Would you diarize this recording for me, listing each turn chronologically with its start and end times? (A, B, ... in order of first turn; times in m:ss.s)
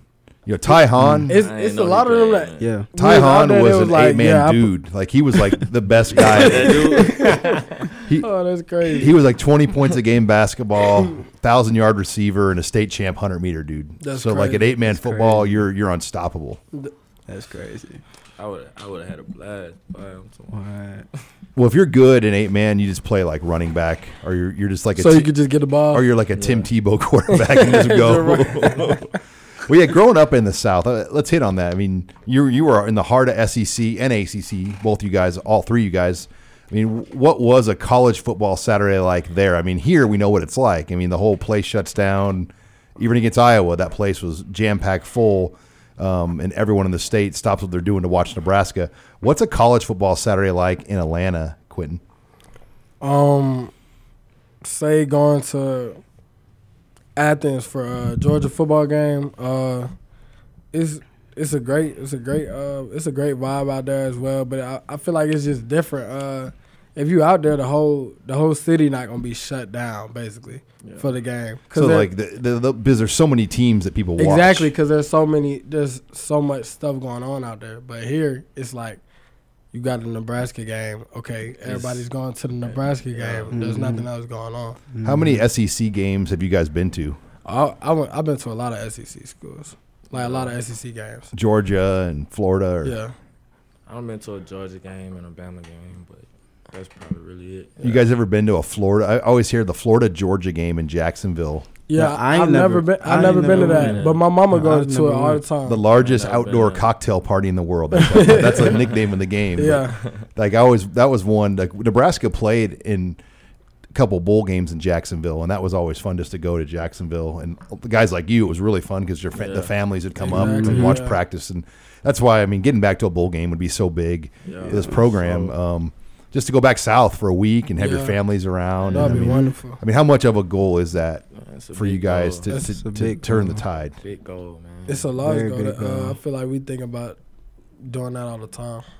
0:00.4-0:01.4 A
0:01.0-0:01.3 B
0:01.3-0:04.7 C
0:01.3-0:02.7 D
0:02.6-0:02.9 B
0:02.9-0:07.0 A
0:06.2-0:07.9 D
0:06.6-0:07.6 C
0:08.2-0:09.1 C
0:08.9-0:16.6 A
0:14.0-0:14.8 C
0:14.9-0:15.6 B
0:17.3-0:18.0 B
0:18.4-0:20.6 D
0:20.5-0:21.0 B
0:21.6-0:25.3 A
0:25.0-0:26.0 C
0:25.9-0:29.1 A
0:26.3-0:26.7 D
0:27.3-0:29.2 C
0:29.6-0:52.0 A
0:53.0-0:53.7 C
0:54.6-0:56.0 C
0:57.2-0:59.9 C
1:00.7-1:12.1 C
1:10.8-1:11.1 D
1:11.7-1:14.7 A
1:14.2-1:19.0 C
1:19.7-1:24.8 C
1:21.6-1:22.0 D
1:22.6-1:23.6 D
1:23.5-1:24.1 B
1:24.9-1:25.4 B
1:25.0-1:27.2 A
1:27.4-1:31.3 C
1:30.1-1:30.5 D
1:31.3-1:33.0 A
1:32.8-1:33.1 C
1:33.9-1:38.0 D
1:37.8-1:41.7 A
1:41.9-1:45.8 C
1:41.9-1:45.4 B
1:43.1-1:44.2 D
1:45.6-1:53.2 A
1:45.9-1:46.8 D
1:47.9-1:48.7 C
1:49.6-1:50.0 C
1:53.9-2:14.0 A
1:59.3-1:59.7 D
2:00.2-2:01.2 C
2:00.5-2:01.0 B
2:04.4-2:05.5 D
2:04.6-2:05.1 B
2:07.8-2:08.2 C
2:08.9-2:09.8 C
2:08.9-2:09.4 B
2:11.3-2:12.5 D
2:12.5-2:13.6 B
2:14.0-2:15.1 D
2:14.9-2:17.2 C
2:15.2-2:16.2 B
2:17.8-2:18.8 C